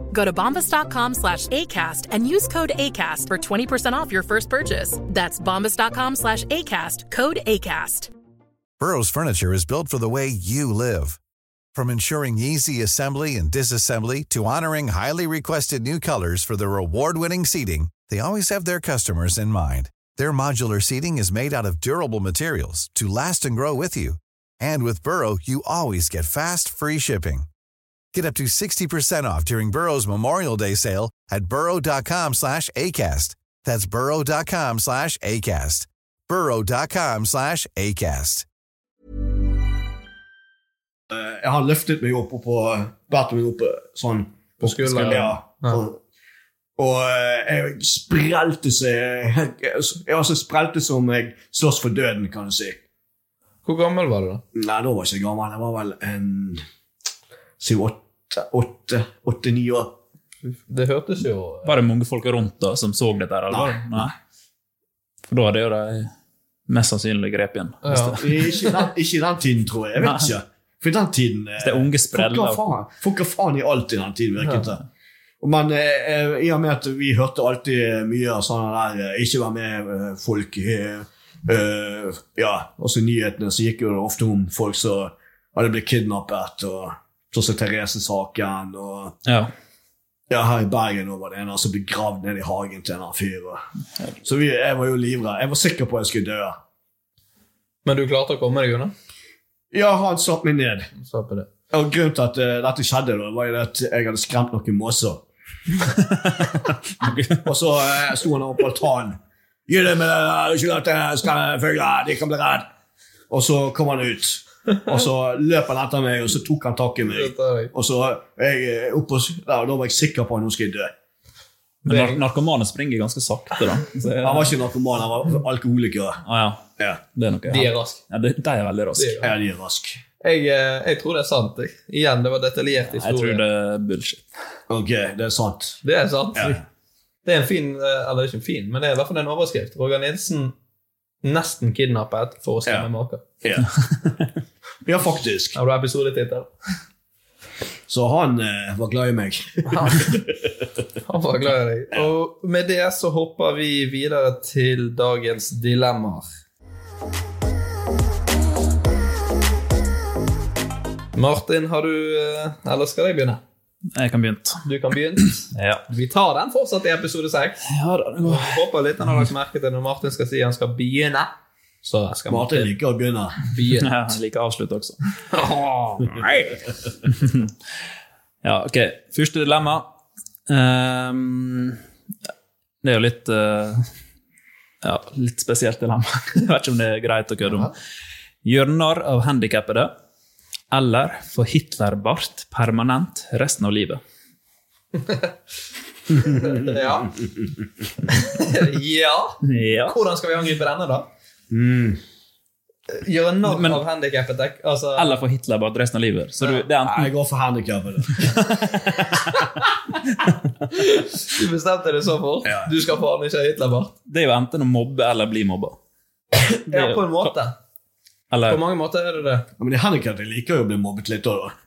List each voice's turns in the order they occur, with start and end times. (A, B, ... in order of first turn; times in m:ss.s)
0:00.1-0:08.1 A
0:08.8-0:11.2 B
0:11.7-0:27.5 B
0:28.1-0:38.4 B
0:41.1-0:46.0 C
0:44.6-0:45.8 D
0:46.8-0:52.8 C
0:53.6-0:54.4 D
0:54.5-0:56.6 C
0:57.6-0:59.9 C
1:00.5-1:01.7 D
1:01.6-1:04.1 E
1:03.5-1:04.1 C
1:05.3-1:06.1 E
1:06.7-1:08.2 E
1:07.8-1:08.8 D
1:08.2-1:14.8 C
1:10.0-1:10.3 E
1:11.6-1:12.6 E
1:15.4-1:29.2 C
1:29.3-1:29.5 E
1:30.3-1:33.6 C
1:34.2-1:36.6 C
1:37.8-1:38.9 D
1:39.7-1:40.9 C
1:41.0-1:41.5 D
1:41.7-1:45.2 C
1:46.0-1:47.4 E
1:47.4-1:52.7 C
1:53.3-2:00.9 C
1:57.1-1:57.7 D
2:01.9-2:04.6 E
2:01.9-2:02.2 D
2:04.2-2:06.2 C
2:06.3-2:09.3 E
2:07.5-2:08.0 D
2:09.0-2:09.3 D
2:09.2-2:10.0 C
2:10.2-2:13.4 D
2:12.9-2:14.3 E
2:14.7-2:15.8 C
2:15.8-2:16.6 D
2:16.4-2:16.6 C
2:17.2-2:20.5 D
2:21.2-2:23.2 D
2:23.4-2:23.7 C
2:24.8-2:25.6 C
2:25.6-2:26.5 D
2:27.9-2:30.2 C
2:29.7-2:30.2 D
2:31.1-2:36.3 D
2:41.1-2:43.4 D
2:43.9-2:44.6 E
2:44.6-2:47.6 D
2:45.5-2:45.8 E
2:47.6-2:48.6 E
2:48.2-2:51.3 D
2:51.8-2:52.7 D
2:52.3-2:53.4 C
2:53.5-2:53.9 D
2:53.8-2:55.0 E
2:55.4-2:56.0 D
2:56.0-2:57.5 E
2:58.4-2:59.9 E
3:00.5-3:01.8 E
3:02.8-3:03.9 E
3:04.8-3:07.7 E
3:08.4-3:09.9 E
3:10.7-3:14.0 E
3:15.0-3:15.3 D
3:16.2-3:17.1 D
3:16.3-3:16.6 C
3:18.1-3:21.1 D
3:19.4-3:20.0 E
3:21.5-3:22.0 C
3:22.9-3:25.2 D
3:23.5-3:23.8 E
3:25.0-3:27.1 E
3:26.8-3:28.4 C
3:30.7-3:33.9 D
3:32.4-3:32.7 C
3:34.1-3:35.8 E
3:36.4-3:37.5 D
3:36.7-3:37.3 E
3:38.3-3:38.6 E
3:38.5-3:39.5 D
3:39.6-3:41.6 C